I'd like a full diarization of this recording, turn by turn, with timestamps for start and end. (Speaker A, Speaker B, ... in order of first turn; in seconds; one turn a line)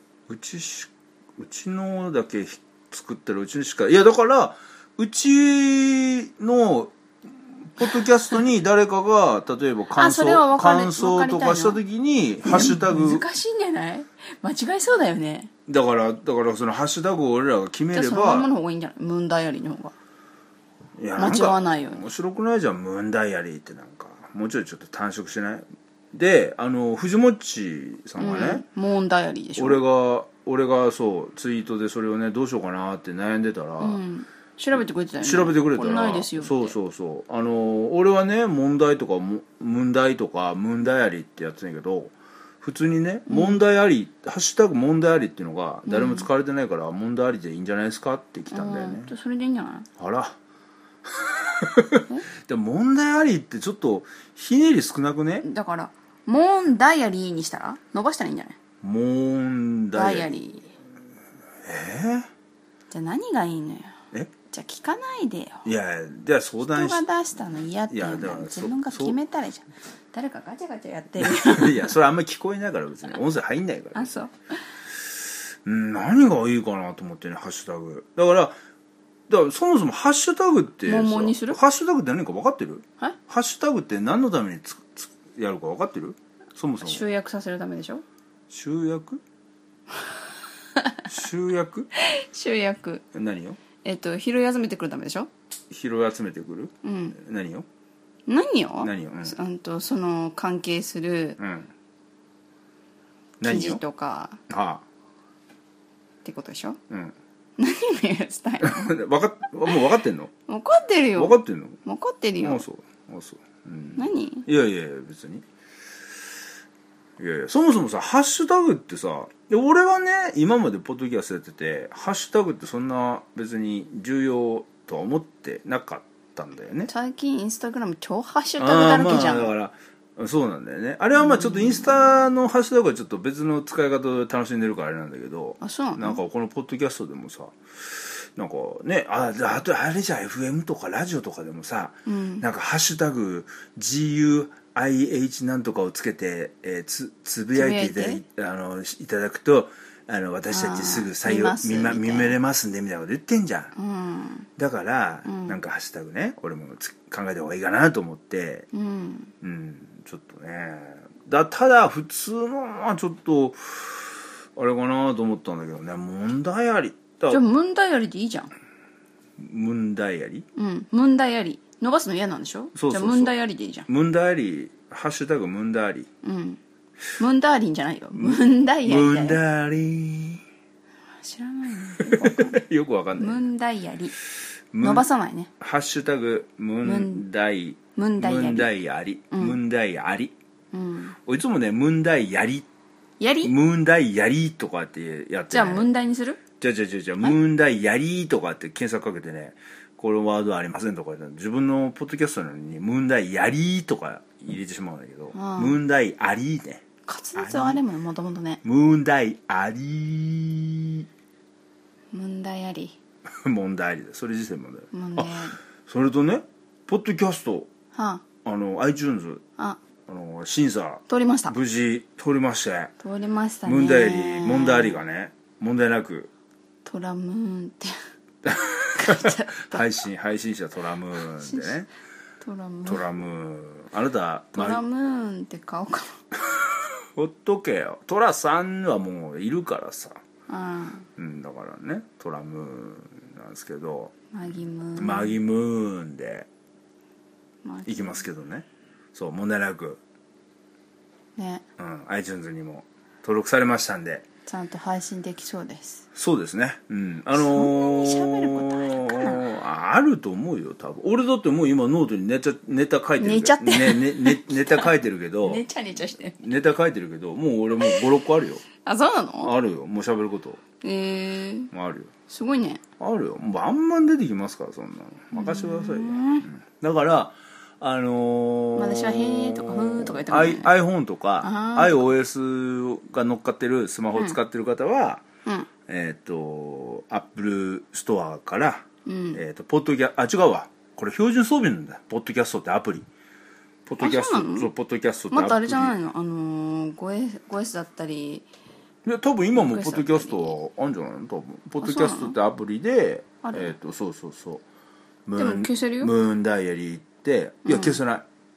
Speaker A: 0.3-13.2
Speaker B: 9.9-11.8
Speaker B: 12.4-15.5
Speaker A: 15.7-18.5
Speaker B: 17.9-19.9
Speaker A: 21.0-28.6
Speaker B: 21.1-22.1
Speaker B: 28.2-29.8
Speaker A: 29.6-34.0
Speaker B: 33.8-36.8
Speaker A: 35.2-49.1
Speaker B: 43.3-43.6
Speaker B: 45.9-46.3
Speaker B: 48.5-49.9
Speaker A: 50.0-50.4
Speaker A: 51.1-55.5
Speaker B: 55.4-58.6
Speaker A: 58.8-60.3
Speaker B: 59.9-60.7
Speaker A: 61.6-62.3
Speaker B: 62.9-65.6
Speaker A: 65.6-67.0
Speaker B: 66.6-71.9
Speaker A: 67.9-69.2
Speaker A: 71.2-74.1
Speaker B: 73.9-74.5
Speaker A: 75.6-78.5
Speaker A: 79.3-87.0
Speaker B: 80.8-81.6
Speaker B: 86.8-88.0
Speaker A: 88.5-89.2
Speaker A: 91.1-91.9
Speaker B: 92.0-93.0
Speaker A: 93.1-93.6
Speaker B: 93.8-95.3
Speaker A: 95.7-97.7
Speaker B: 96.8-97.2
Speaker B: 98.3-101.4
Speaker A: 98.8-99.4
Speaker A: 101.4-101.7
Speaker A: 103.4-103.8
Speaker B: 103.4-104.4
Speaker A: 104.5-104.8
Speaker B: 106.2-106.8
Speaker B: 107.6-108.9
Speaker A: 108.6-110.3
Speaker B: 110.5-112.6
Speaker A: 111.2-111.8
Speaker A: 112.4-115.4
Speaker B: 114.0-114.5
Speaker A: 117.2-126.9
Speaker B: 126.9-129.5
Speaker A: 128.6-153.7
Speaker B: 131.2-132.2
Speaker B: 135.6-136.2
Speaker B: 142.1-142.4
Speaker B: 147.5-148.2
Speaker B: 150.5-152.4
Speaker B: 153.7-154.5
Speaker A: 154.6-158.7
Speaker B: 155.2-155.6
Speaker B: 158.7-159.3
Speaker A: 159.4-167.4
Speaker B: 167.3-168.5
Speaker A: 169.4-170.4
Speaker B: 170.5-173.9
Speaker A: 172.7-173.3
Speaker A: 173.9-176.1
Speaker B: 176.2-176.6
Speaker B: 177.2-179.4
Speaker A: 178.1-180.4
Speaker B: 181.2-182.6
Speaker A: 182.0-183.5
Speaker B: 183.2-184.1
Speaker A: 184.7-185.1
Speaker B: 184.8-185.5
Speaker A: 185.6-190.3
Speaker B: 186.8-187.2
Speaker B: 187.9-188.7
Speaker B: 189.3-189.6
Speaker B: 190.7-191.2
Speaker A: 191.2-192.7
Speaker B: 193.2-193.5
Speaker A: 193.4-195.9
Speaker B: 195.5-196.4
Speaker A: 196.6-206.8
Speaker B: 205.3-205.8
Speaker B: 207.1-208.6
Speaker A: 207.3-207.8
Speaker A: 208.6-211.1
Speaker B: 212.1-213.0
Speaker A: 213.4-217.7
Speaker B: 214.9-215.6
Speaker B: 217.9-218.2
Speaker A: 218.4-219.4
Speaker A: 220.1-222.9
Speaker B: 221.1-221.5
Speaker B: 223.0-225.0
Speaker A: 223.6-226.3
Speaker B: 226.8-227.9
Speaker A: 228.4-231.9
Speaker B: 228.9-229.8
Speaker B: 231.3-231.8
Speaker B: 232.4-233.1
Speaker A: 232.8-234.8
Speaker B: 234.5-236.2
Speaker A: 237.1-240.2
Speaker B: 240.5-241.1
Speaker A: 241.2-244.1
Speaker B: 244.3-245.4
Speaker A: 244.9-246.5
Speaker B: 247.6-248.2
Speaker A: 247.8-250.0
Speaker B: 251.3-251.6
Speaker A: 251.8-254.2
Speaker B: 254.4-256.0
Speaker A: 256.1-265.6
Speaker B: 257.3-259.4
Speaker B: 263.2-266.4
Speaker A: 266.4-268.6
Speaker B: 267.8-268.1
Speaker B: 268.8-269.5
Speaker A: 269.4-270.6
Speaker B: 270.8-271.7
Speaker A: 271.7-272.1
Speaker B: 272.3-272.8
Speaker A: 273.0-285.2
Speaker B: 275.3-276.5
Speaker B: 278.7-280.7
Speaker B: 281.4-282.1
Speaker A: 285.9-293.1
Speaker B: 289.0-289.4
Speaker A: 293.9-295.9
Speaker B: 294.0-294.7
Speaker B: 295.3-298.5
Speaker A: 299.0-304.6
Speaker B: 299.5-300.6
Speaker B: 301.8-302.4
Speaker B: 303.4-303.7
Speaker A: 305.2-308.2
Speaker B: 305.4-306.1
Speaker B: 307.6-308.0